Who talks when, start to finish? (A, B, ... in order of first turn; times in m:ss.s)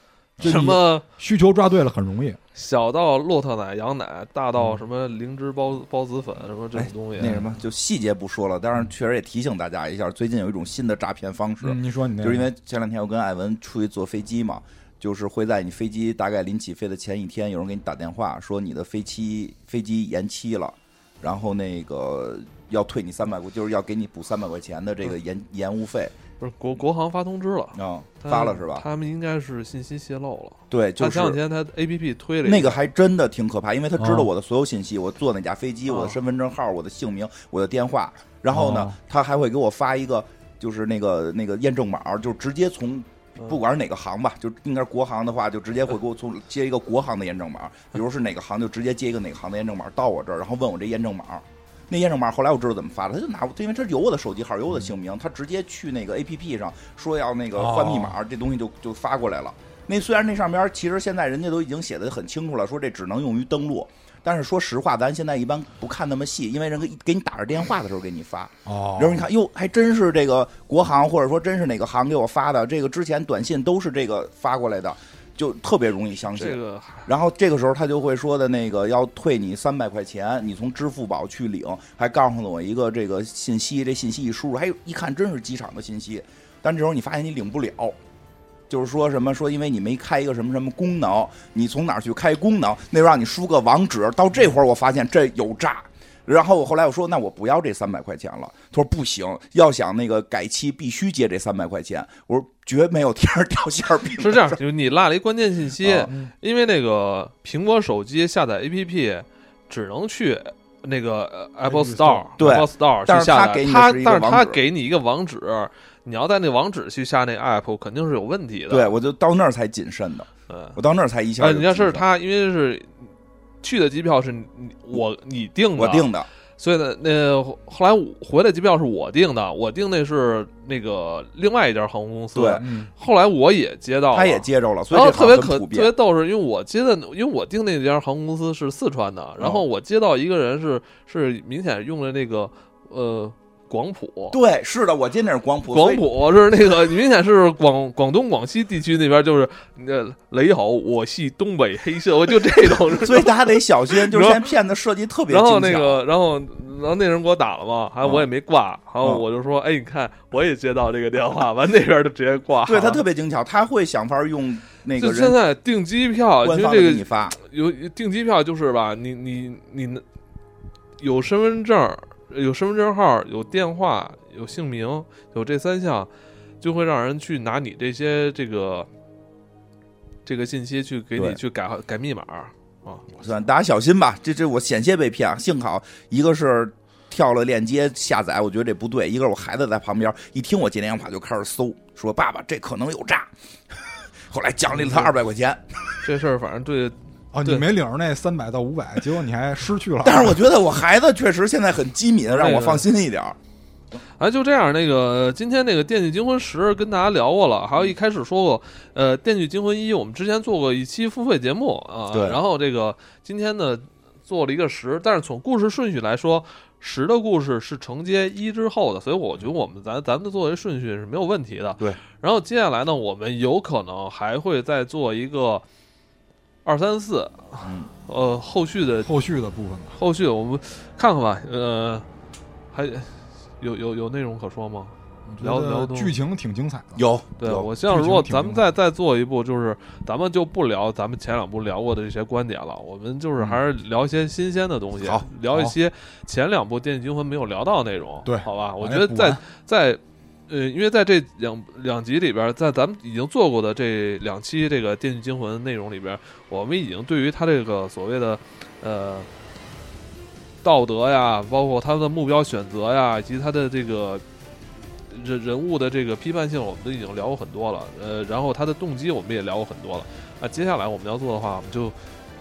0:00.4-0:01.0 A
0:00.4-0:02.4 B
0:02.5-0:07.4 A
0:06.8-0:07.4 B
0:07.2-0:26.1 C
0:11.6-0:12.5 B
0:26.4-0:32.8 A
0:27.7-0:28.8 C
0:30.7-0:31.4 C
0:32.4-1:28.0 C
0:34.0-0:34.3 B
0:35.9-0:36.2 A
0:38.5-0:38.9 B
0:57.5-0:58.2 B
1:08.6-1:09.3 B
1:16.3-1:17.1 A
1:28.7-1:44.6 C
1:44.2-1:58.9 A
1:45.8-1:46.1 C
1:51.6-1:52.3 B
1:52.4-1:54.6 C
1:58.7-2:02.0 C
2:00.5-2:00.8 A
2:01.4-2:03.1 A
2:03.6-2:24.4 A
2:05.8-2:06.3 C
2:12.3-2:12.7 C
2:12.6-2:12.9 B
2:14.1-2:15.9 C
2:19.4-2:19.6 C
2:24.3-2:26.0 C
2:25.7-2:34.4 A
2:32.9-2:36.0 C
2:35.3-2:43.0 A
2:38.0-2:38.3 C
2:42.6-2:45.4 C
2:45.0-2:50.0 A
2:46.4-2:47.4 C
2:51.0-2:56.1 A
2:56.6-2:58.9 A
3:00.2-3:03.1 A
3:01.1-3:01.4 C
3:03.2-3:15.6 C
3:14.8-3:15.1 A
3:16.0-3:17.7 A
3:17.3-3:20.4 B
3:20.0-3:23.4 C
3:22.3-3:22.9 A
3:24.2-3:45.6 A
3:32.1-3:32.4 C
3:46.6-3:49.1 A
3:47.6-3:47.9 C
3:49.0-3:50.0 B
3:50.0-3:52.0 A
3:52.7-3:56.1 A
3:55.2-3:57.0 B
3:57.0-3:57.7 C
3:57.4-4:19.3 A
3:57.8-3:58.6 B
4:05.0-4:05.3 C
4:05.5-4:05.8 B
4:08.2-4:09.4 B
4:20.6-4:24.2 A
4:25.1-4:32.0 A